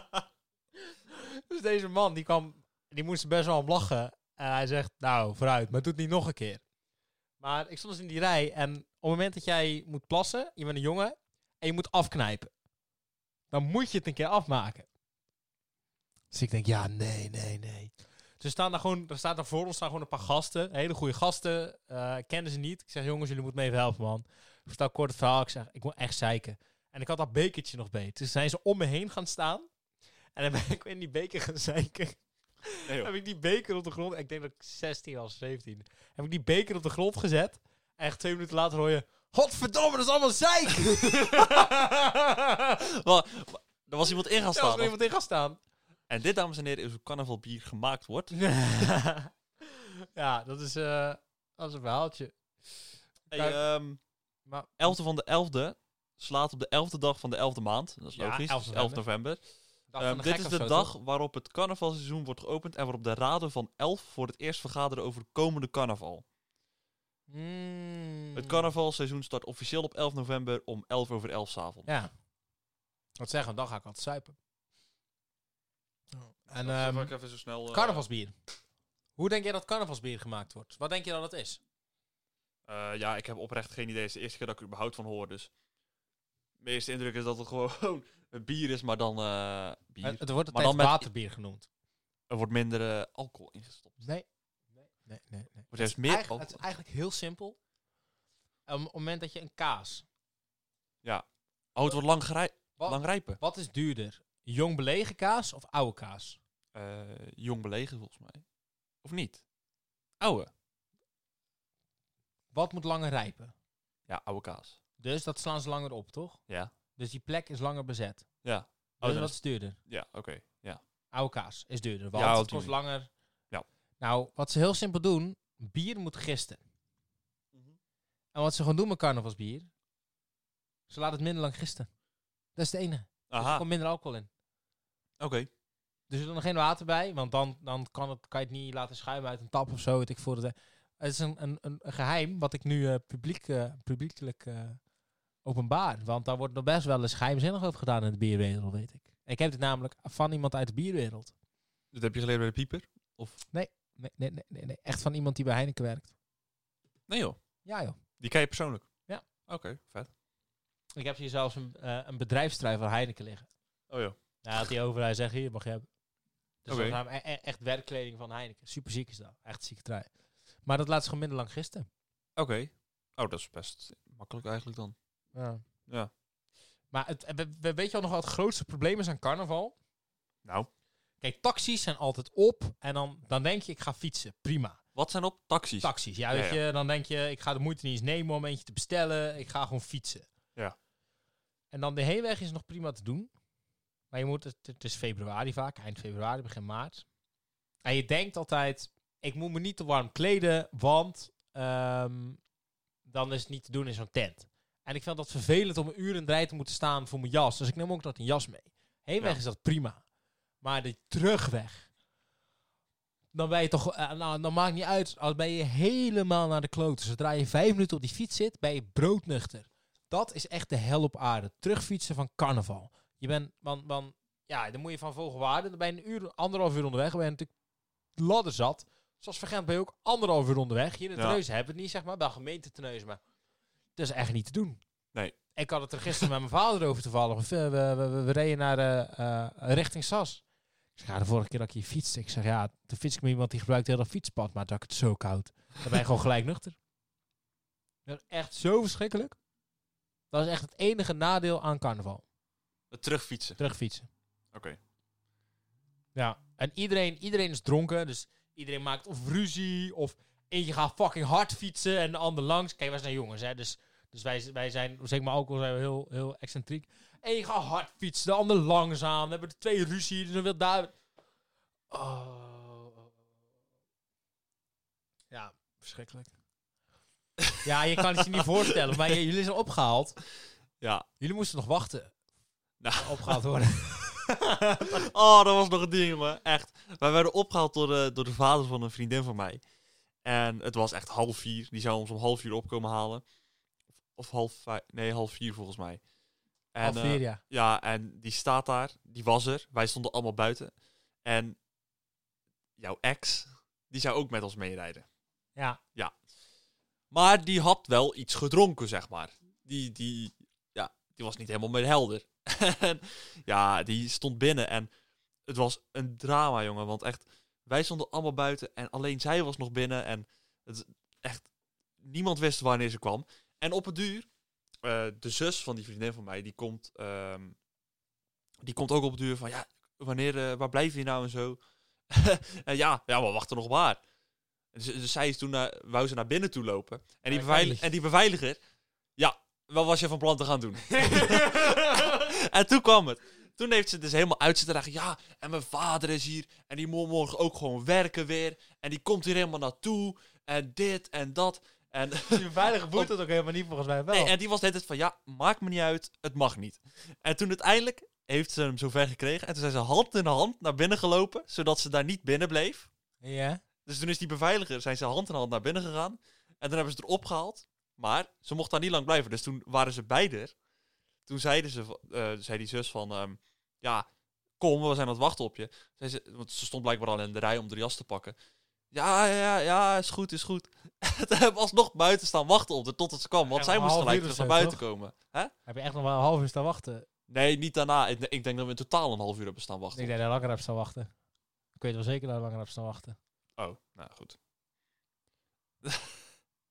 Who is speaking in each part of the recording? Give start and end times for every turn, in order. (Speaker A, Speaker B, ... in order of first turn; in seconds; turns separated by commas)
Speaker A: 1.1-6.6, Speaker A: 7.4-12.5, Speaker A: 13.5-14.9, Speaker A: 16.3-29.7, Speaker A: 30.4-42.8, Speaker B: 41.0-41.7, Speaker B: 42.8-44.9, Speaker A: 44.5-45.6, Speaker B: 46.1-48.3, Speaker A: 48.3-52.4, Speaker B: 53.3-54.0, Speaker A: 53.3-53.6, Speaker A: 54.5-54.9, Speaker B: 54.8-59.4, Speaker A: 58.1-59.0, Speaker A: 59.9-60.9, Speaker B: 60.0-66.2, Speaker A: 67.3-68.6, Speaker B: 68.3-71.9, Speaker A: 71.9-72.1, Speaker A: 73.2-74.4, Speaker A: 76.1-77.1, Speaker B: 76.5-78.0, Speaker A: 77.7-78.3, Speaker A: 79.2-81.6, Speaker B: 82.7-85.5, Speaker B: 86.6-91.1, Speaker A: 90.0-91.7, Speaker B: 92.3-94.0, Speaker A: 94.0-94.3, Speaker A: 94.8-97.6, Speaker B: 95.7-96.6, Speaker A: 98.7-100.0, Speaker B: 101.0-103.4, Speaker A: 102.8-106.4, Speaker B: 106.7-108.5, Speaker B: 109.0-109.4, Speaker B: 110.2-110.5, Speaker A: 112.5-113.5, Speaker B: 114.1-114.8, Speaker A: 115.0-116.4, Speaker A: 117.0-118.3, Speaker B: 118.4-120.8, Speaker A: 119.0-119.8, Speaker A: 121.1-123.1, Speaker B: 122.2-122.8, Speaker A: 124.0-126.6, Speaker A: 128.3-129.7, Speaker A: 130.9-131.9, Speaker A: 132.6-134.3, Speaker B: 133.3-133.7, Speaker B: 135.2-135.5, Speaker A: 136.1-144.8, Speaker A: 145.4-151.3, Speaker B: 151.9-153.4, Speaker A: 153.5-156.1, Speaker B: 157.1-157.4, Speaker A: 157.7-158.0, Speaker B: 158.2-158.9, Speaker B: 159.5-160.1, Speaker A: 161.0-163.5, Speaker B: 163.9-164.2, Speaker A: 164.4-165.9, Speaker A: 166.7-170.1, Speaker B: 166.7-167.0, Speaker A: 170.6-171.9, Speaker B: 172.4-174.9, Speaker A: 175.3-175.6, Speaker A: 176.9-179.8, Speaker A: 181.2-184.8, Speaker B: 185.0-186.6, Speaker A: 185.8-190.3, Speaker A: 191.7-193.3, Speaker A: 194.1-197.1, Speaker A: 197.8-202.4, Speaker A: 203.1-210.0, Speaker A: 210.6-211.9, Speaker A: 213.3-227.5, Speaker A: 228.2-233.2, Speaker A: 234.0-234.8, Speaker A: 235.6-240.4, Speaker A: 241.0-246.8, Speaker A: 248.1-249.4, Speaker A: 250.3-252.2, Speaker B: 252.9-253.6, Speaker A: 253.6-254.1, Speaker B: 254.5-254.8, Speaker A: 256.1-270.9, Speaker A: 271.9-273.1, Speaker A: 275.3-276.3, Speaker B: 277.4-278.0, Speaker A: 277.6-280.2, Speaker B: 280.8-281.1, Speaker A: 281.2-282.1, Speaker B: 282.8-283.4, Speaker A: 283.0-285.0, Speaker B: 284.9-289.6, Speaker B: 290.2-293.2, Speaker B: 294.2-296.0, Speaker B: 296.7-300.7, Speaker A: 296.8-297.4, Speaker B: 301.2-301.6, Speaker B: 302.8-305.1, Speaker B: 307.1-314.9, Speaker B: 315.5-321.5, Speaker B: 322.0-324.3, Speaker B: 324.8-327.6, Speaker B: 328.6-334.0, Speaker B: 334.7-338.6, Speaker A: 337.3-337.9, Speaker B: 339.2-353.1, Speaker A: 340.9-342.2, Speaker A: 352.3-354.3, Speaker B: 354.1-362.9, Speaker A: 363.2-363.6, Speaker B: 363.9-370.5, Speaker B: 371.3-374.1, Speaker B: 374.6-378.4, Speaker B: 378.9-385.5, Speaker A: 383.5-384.8, Speaker A: 385.7-387.1, Speaker B: 387.3-390.1, Speaker A: 389.9-391.1, Speaker A: 391.8-393.2, Speaker B: 393.6-394.4, Speaker B: 395.8-396.2